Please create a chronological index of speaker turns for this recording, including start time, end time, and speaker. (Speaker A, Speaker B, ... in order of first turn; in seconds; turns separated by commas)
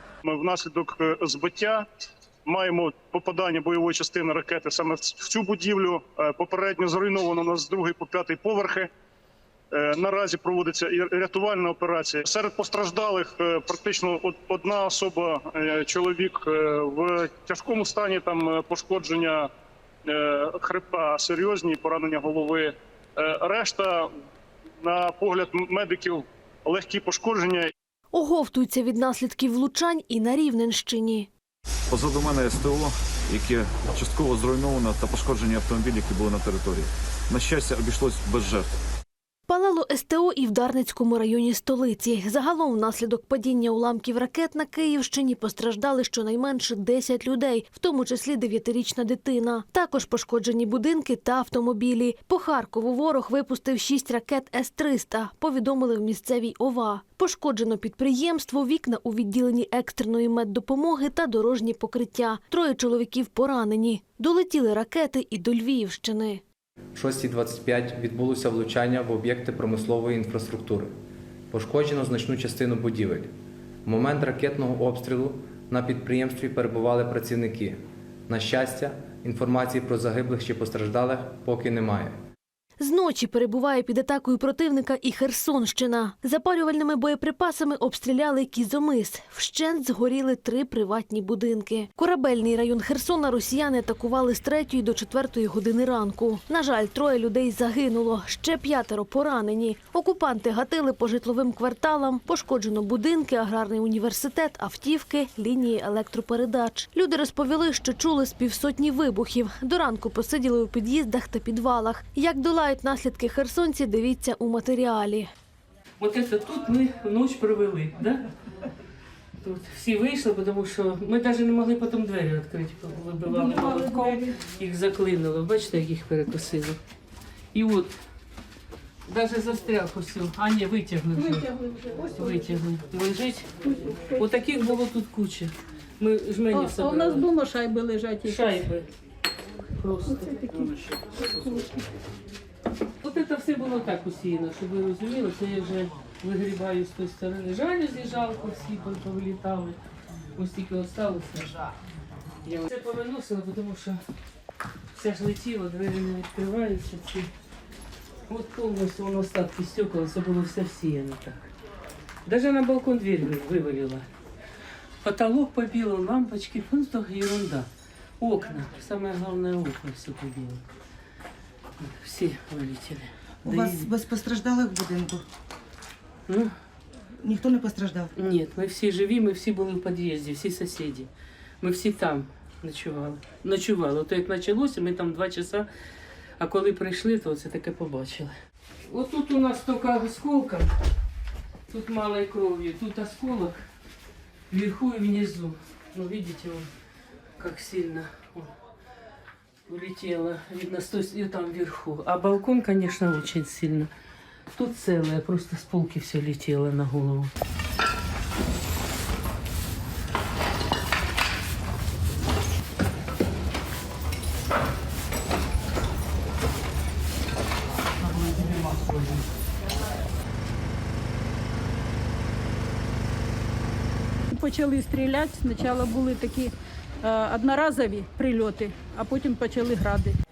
Speaker A: 0.2-1.8, Speaker A: 2.5-8.9, Speaker A: 9.7-19.5, Speaker A: 20.1-24.1, Speaker A: 24.8-27.7, Speaker B: 28.1-31.3, Speaker C: 31.9-38.7, Speaker B: 39.5-66.4, Speaker D: 67.0-70.9, Speaker D: 71.5-73.3, Speaker D: 73.9-82.1, Speaker B: 82.8-115.3, Speaker E: 116.0-118.2, Speaker E: 119.4-126.8, Speaker F: 123.3-124.3, Speaker E: 127.5-128.0, Speaker E: 129.1-131.5, Speaker F: 131.2-132.4, Speaker E: 132.1-137.3, Speaker F: 133.7-134.3, Speaker F: 136.5-138.4, Speaker E: 138.2-138.9, Speaker E: 139.8-140.8, Speaker F: 141.3-141.8, Speaker E: 143.0-149.8, Speaker E: 150.4-151.6, Speaker E: 152.4-154.0, Speaker E: 154.9-157.3, Speaker E: 158.3-161.5, Speaker E: 162.3-164.1, Speaker E: 165.0-167.7, Speaker E: 168.2-170.6, Speaker E: 171.8-173.9, Speaker G: 173.4-175.2, Speaker G: 177.2-178.1, Speaker E: 178.2-181.1, Speaker E: 181.6-185.7, Speaker E: 186.4-188.3, Speaker E: 188.9-190.7, Speaker E: 191.7-193.6, Speaker E: 194.5-196.7, Speaker E: 197.4-198.5, Speaker E: 199.7-203.9, Speaker E: 204.6-207.3, Speaker E: 218.0-219.2, Speaker F: 224.3-230.2